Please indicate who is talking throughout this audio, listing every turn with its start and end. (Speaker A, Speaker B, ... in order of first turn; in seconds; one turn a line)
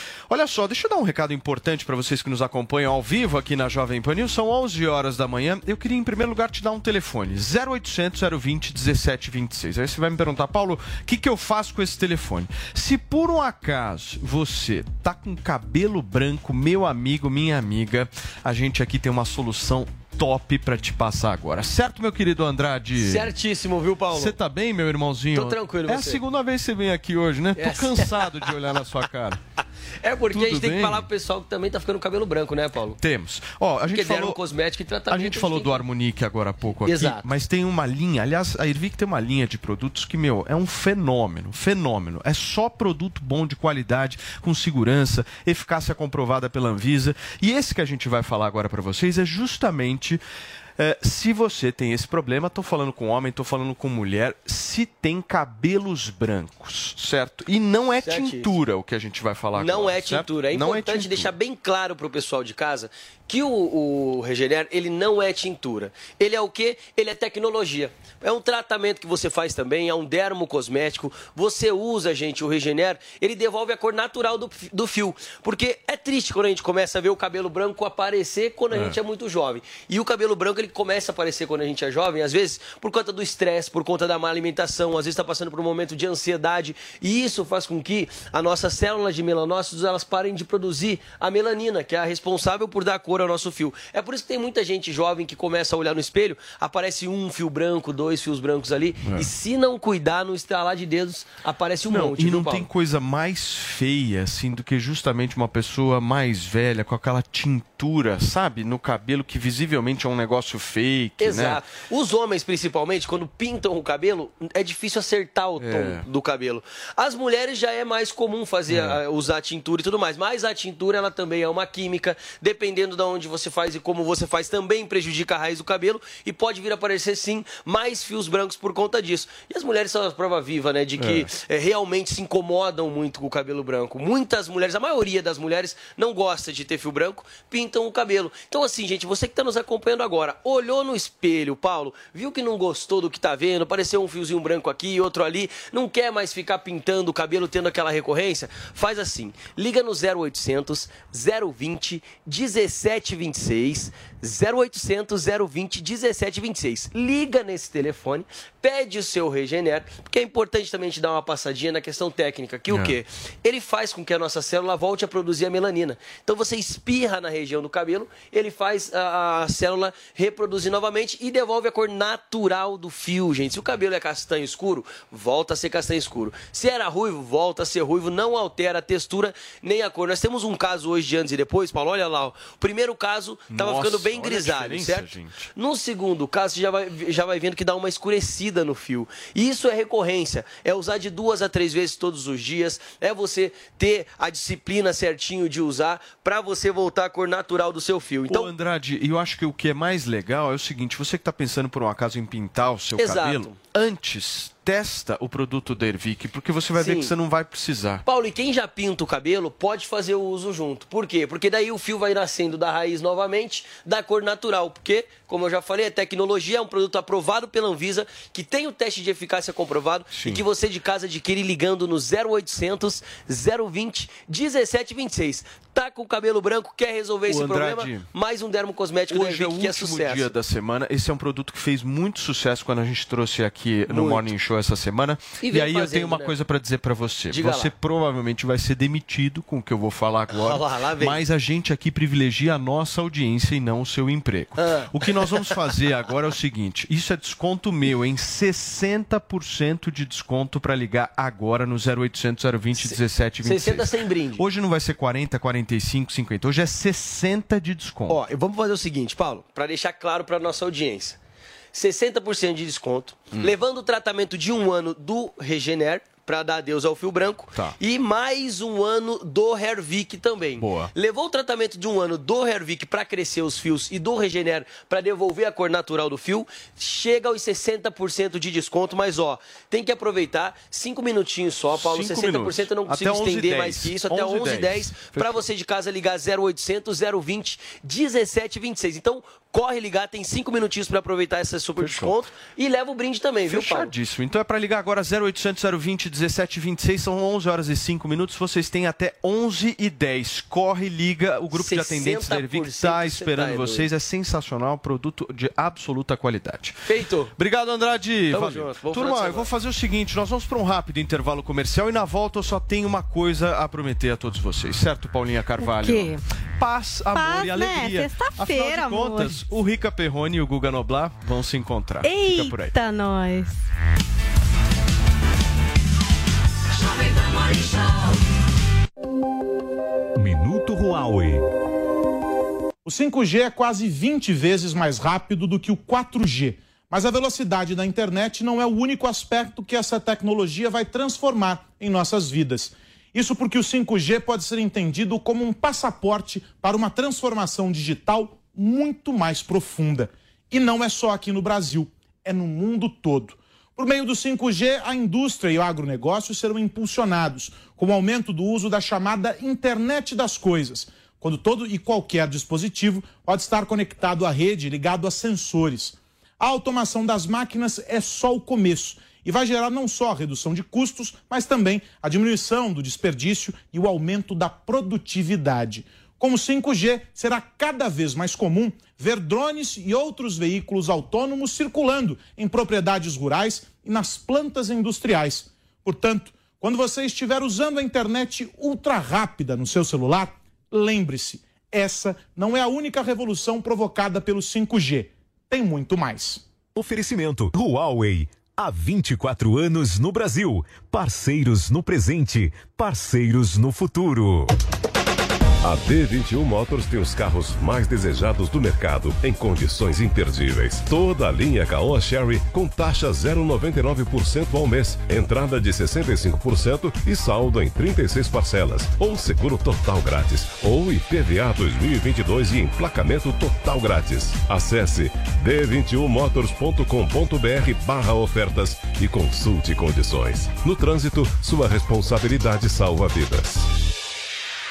Speaker A: 0.3-23.3
Speaker B: 23.0-24.4
Speaker A: 24.1-29.4
Speaker B: 25.4-26.2
Speaker B: 27.6-28.3
Speaker B: 30.0-33.0
Speaker A: 30.3-31.1
Speaker A: 33.0-34.4
Speaker B: 33.9-35.9
Speaker A: 35.1-50.2
Speaker B: 36.9-37.3
Speaker A: 50.8-61.3
Speaker B: 58.0-58.5
Speaker B: 59.6-102.7
Speaker A: 78.7-79.0
Speaker A: 99.0-99.3
Speaker A: 101.9-111.6
Speaker B: 111.2-198.5
Speaker A: 115.6-116.1
Speaker A: 118.7-119.0
Speaker A: 131.0-131.3
Speaker A: 162.7-163.0
Speaker A: 183.5-185.5
Speaker A: 198.3-208.0
Speaker B: 203.0-203.6
Speaker B: 206.8-207.1
Speaker B: 208.1-230.3
Speaker A: 220.1-220.4
Speaker A: 227.3-228.1
Speaker A: 229.1-258.2
Speaker B: 233.9-234.3
Speaker B: 235.4-236.3
Speaker B: 237.3-237.7
Speaker B: 240.3-241.2
Speaker B: 244.6-245.5
Speaker B: 252.8-254.4
Speaker B: 258.1-261.2
Speaker B: 261.7-293.9
Speaker A: 270.6-270.9
Speaker A: 281.7-285.5
Speaker A: 291.8-292.2
Speaker A: 293.5-306.8
Speaker B: 301.5-303.9
Speaker B: 306.9-307.3
Speaker A: 307.4-322.8
Speaker B: 308.3-309.5
Speaker C: 315.6-316.2
Speaker C: 317.1-319.4
Speaker C: 322.0-323.6
Speaker D: 330.2-331.4
Speaker E: 332.9-396.4
Speaker D: 396.8-404.5
Speaker F: 405.6-433.7